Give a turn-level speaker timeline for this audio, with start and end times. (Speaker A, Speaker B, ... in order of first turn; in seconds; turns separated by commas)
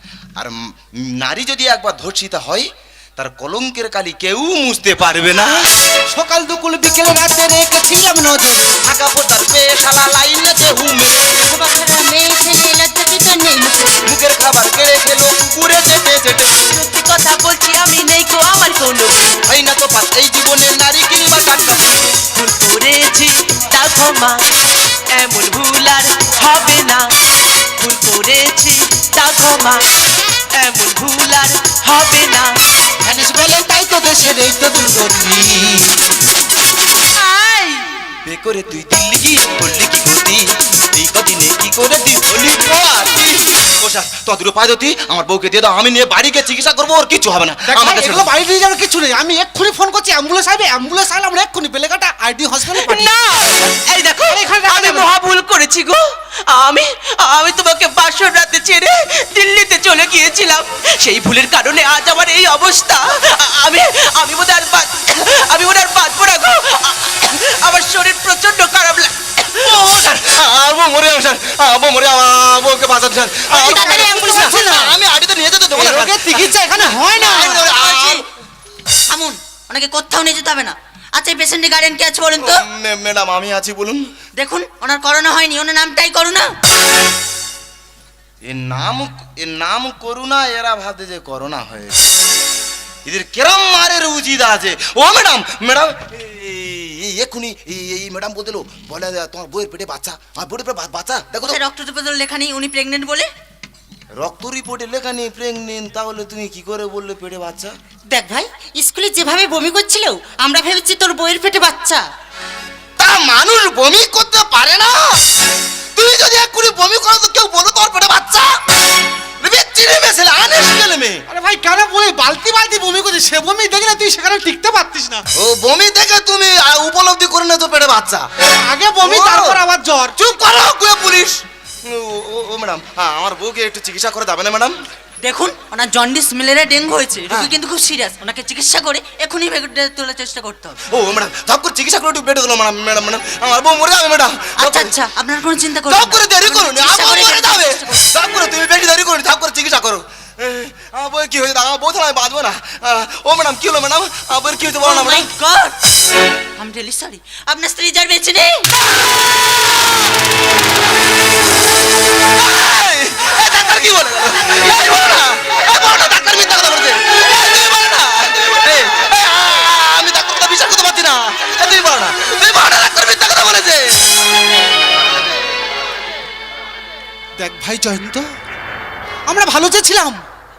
Speaker A: 0.4-5.6, Speaker B: 6.1-8.8, Speaker A: 8.8-11.3, Speaker C: 11.5-13.9, Speaker A: 14.1-16.5, Speaker D: 16.7-19.4, Speaker A: 19.5-22.0, Speaker D: 22.3-24.4, Speaker D: 25.1-27.1, Speaker D: 27.8-29.8, Speaker D: 30.6-32.6, Speaker B: 33.0-35.9, Speaker D: 37.2-37.8, Speaker A: 38.2-48.3, Speaker B: 47.7-53.2, Speaker D: 52.7-69.5, Speaker B: 54.3-55.1, Speaker A: 69.5-76.5, Speaker E: 73.5-74.6, Speaker B: 73.6-74.9, Speaker B: 75.8-77.7, Speaker A: 77.2-78.2, Speaker E: 77.6-78.3, Speaker E: 79.1-82.6, Speaker A: 82.4-84.1, Speaker E: 84.3-86.5, Speaker A: 88.5-92.1, Speaker A: 93.0-101.6, Speaker E: 101.4-103.3, Speaker A: 104.2-107.7, Speaker C: 108.1-112.0, Speaker A: 113.0-115.2, Speaker A: 116.0-118.5, Speaker A: 119.4-121.2, Speaker B: 121.3-125.2, Speaker A: 125.4-128.3, Speaker B: 128.4-130.2, Speaker A: 129.0-129.6, Speaker A: 130.2-134.8, Speaker E: 135.2-140.8, Speaker A: 140.9-144.9, Speaker E: 144.6-148.0, Speaker A: 145.9-155.3, Speaker E: 154.8-155.8, Speaker E: 156.6-158.7, Speaker A: 159.0-159.6, Speaker A: 162.4-174.2, Speaker B: 177.4-178.3, Speaker B: 179.3-180.2